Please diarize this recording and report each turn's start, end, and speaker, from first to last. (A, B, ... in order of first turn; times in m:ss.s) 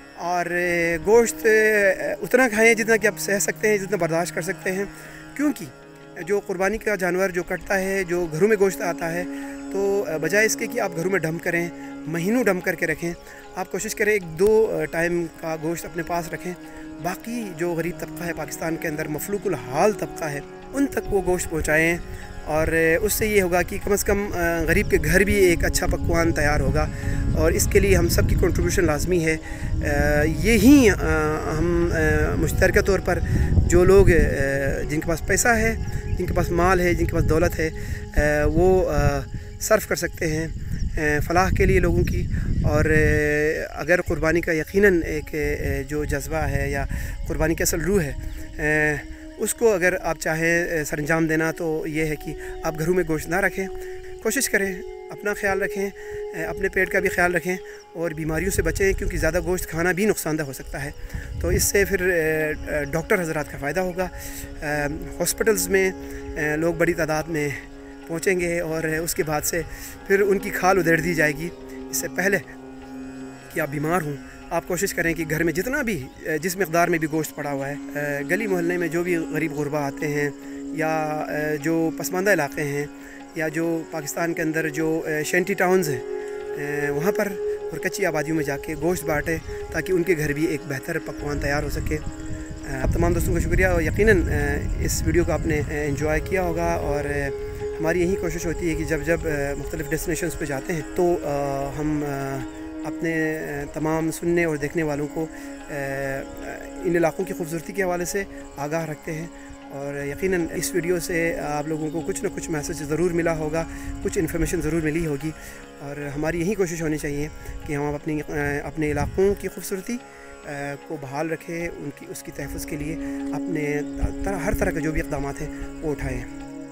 0:00.2-1:12.5 A
1:13.5-1:32.0 A
1:32.6-2:06.3 A